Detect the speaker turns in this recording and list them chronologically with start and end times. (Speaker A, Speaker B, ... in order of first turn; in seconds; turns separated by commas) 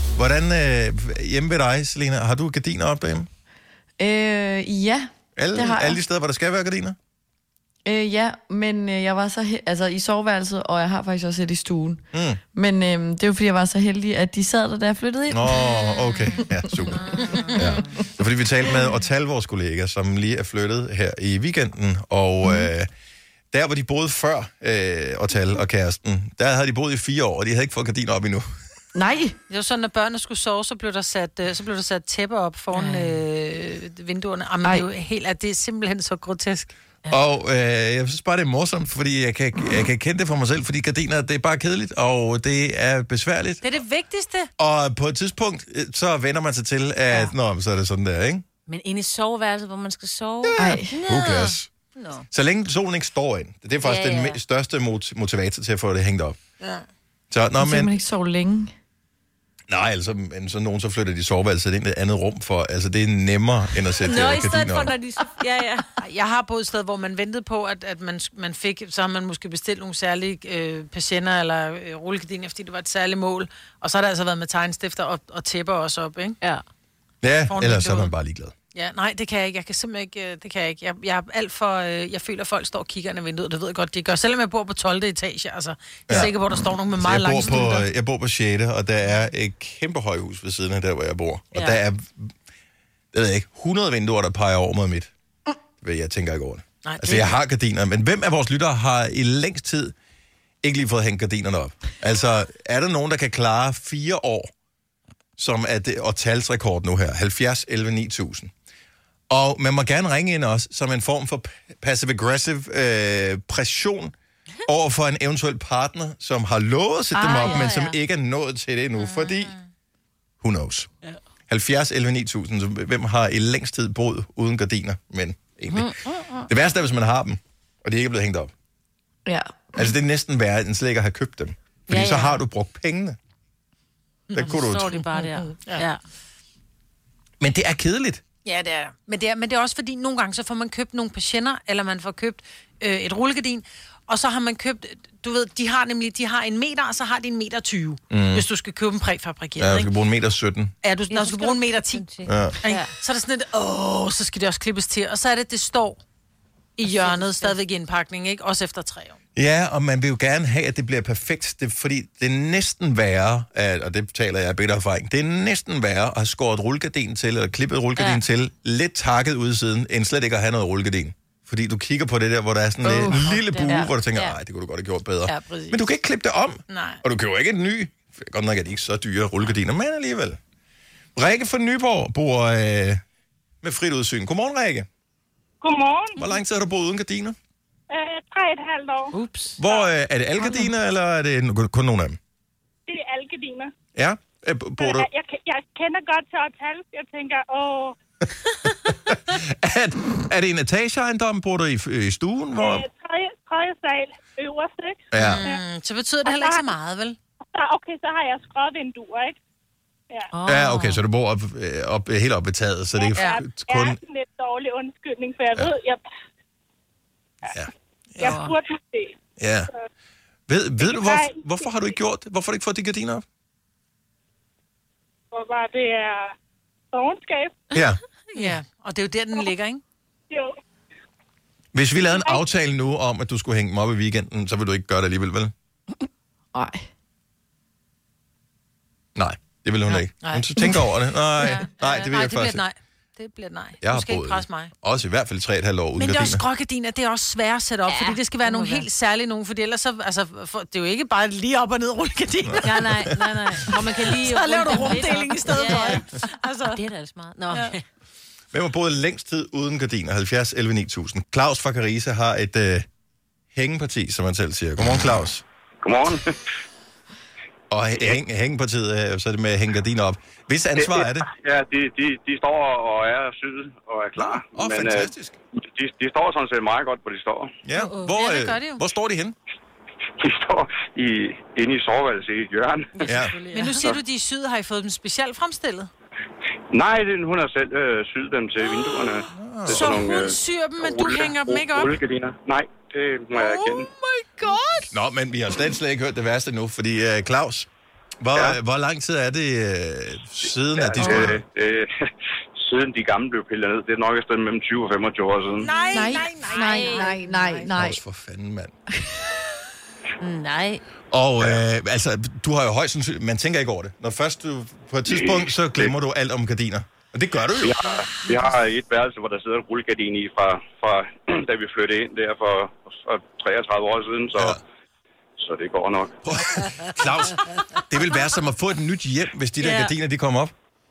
Speaker A: 0.2-3.3, Speaker B: 4.0-6.0, Speaker A: 5.4-7.0, Speaker B: 7.8-15.8, Speaker A: 12.1-12.4, Speaker A: 15.3-22.9, Speaker B: 16.5-17.6, Speaker C: 17.1-17.4, Speaker A: 23.5-28.4, Speaker B: 28.9-29.4, Speaker C: 29.5-37.2, Speaker D: 32.8-33.2, Speaker A: 37.1-43.7, Speaker C: 43.6-44.5, Speaker A: 44.6-48.4, Speaker D: 48.7-52.2, Speaker A: 50.4-51.7, Speaker B: 50.6-51.0, Speaker A: 52.3-56.4, Speaker D: 53.8-54.4, Speaker C: 56.6-56.9, Speaker A: 57.3-58.0, Speaker B: 57.6-58.7, Speaker A: 59.7-65.0, Speaker D: 64.0-65.9, Speaker C: 66.0-76.4, Speaker A: 77.2-78.5, Speaker C: 77.5-78.2, Speaker C: 78.7-87.9, Speaker A: 86.1-86.4, Speaker A: 87.0-92.3, Speaker C: 91.5-91.8, Speaker A: 93.1-95.1, Speaker A: 95.8-99.9, Speaker C: 96.8-97.3, Speaker A: 100.6-104.5, Speaker A: 105.4-108.5, Speaker A: 109.3-114.1, Speaker A: 114.7-119.6, Speaker D: 117.2-118.0, Speaker A: 120.4-120.9, Speaker A: 121.5-125.9, Speaker D: 125.7-126.5, Speaker A: 126.5-128.5, Speaker B: 129.3-129.7, Speaker A: 129.8-133.2, Speaker D: 131.9-132.4, Speaker A: 134.3-135.1, Speaker D: 134.3-135.8, Speaker C: 135.8-136.0, Speaker A: 137.4-138.2, Speaker C: 138.4-149.9, Speaker A: 148.1-148.5, Speaker A: 149.6-150.7, Speaker C: 150.8-156.0, Speaker D: 151.1-153.0, Speaker A: 152.2-152.6, Speaker C: 156.8-159.2, Speaker D: 156.8-157.6, Speaker A: 159.4-180.4, Speaker D: 168.0-168.2, Speaker B: 172.8-173.8, Speaker D: 173.0-174.4, Speaker C: 175.2-175.9, Speaker C: 176.7-177.0, Speaker A: 181.2-183.0, Speaker A: 183.6-184.9, Speaker E: 185.6-186.2, Speaker A: 186.2-187.3, Speaker E: 187.9-189.0, Speaker D: 189.1-189.6, Speaker A: 189.6-192.2, Speaker E: 192.9-193.7, Speaker A: 194.0-195.1, Speaker E: 194.8-198.0, Speaker A: 198.8-202.9, Speaker E: 202.6-205.6, Speaker A: 205.1-205.4, Speaker C: 205.2-207.2, Speaker E: 207.6-209.4, Speaker D: 210.3-211.1, Speaker A: 210.5-214.0, Speaker E: 213.0-216.0, Speaker C: 213.1-213.5, Speaker D: 218.2-218.6, Speaker E: 218.5-219.1, Speaker A: 219.4-219.7, Speaker A: 220.5-223.2, Speaker E: 220.9-221.4, Speaker E: 225.3-226.2, Speaker E: 226.9-227.5, Speaker A: 227.7-228.0, Speaker C: 228.3-229.8, Speaker A: 231.7-235.5, Speaker B: 236.5-236.9, Speaker A: 239.2-242.6, Speaker C: 239.9-240.5, Speaker C: 241.7-244.7, Speaker A: 243.8-246.4, Speaker C: 246.0-252.7, Speaker D: 247.9-248.9, Speaker A: 252.4-253.8, Speaker D: 252.6-257.8, Speaker C: 253.7-256.9, Speaker C: 257.5-257.8, Speaker A: 258.5-262.9, Speaker A: 263.6-265.4, Speaker F: 265.8-266.3, Speaker A: 267.7-271.3, Speaker F: 270.8-277.5, Speaker A: 274.2-275.4, Speaker A: 277.6-279.4, Speaker D: 277.8-278.2, Speaker C: 278.1-278.8, Speaker F: 280.2-283.1, Speaker D: 283.0-284.0, Speaker A: 283.1-283.4, Speaker C: 283.4-285.9, Speaker F: 286.7-293.9, Speaker A: 289.3-290.0, Speaker C: 289.8-292.0, Speaker D: 293.6-293.9, Speaker C: 294.4-294.7, Speaker A: 294.9-297.7, Speaker A: 298.2-301.4, Speaker F: 300.6-301.9, Speaker B: 301.0-301.3, Speaker F: 302.6-306.1, Speaker C: 305.6-307.5, Speaker B: 305.9-308.0, Speaker D: 306.3-307.2, Speaker A: 307.7-308.7, Speaker D: 310.2-310.8, Speaker A: 311.1-317.8, Speaker F: 315.1-315.9, Speaker F: 317.6-324.6, Speaker A: 324.4-324.6, Speaker F: 325.4-326.2, Speaker A: 326.2-330.5, Speaker D: 329.6-329.9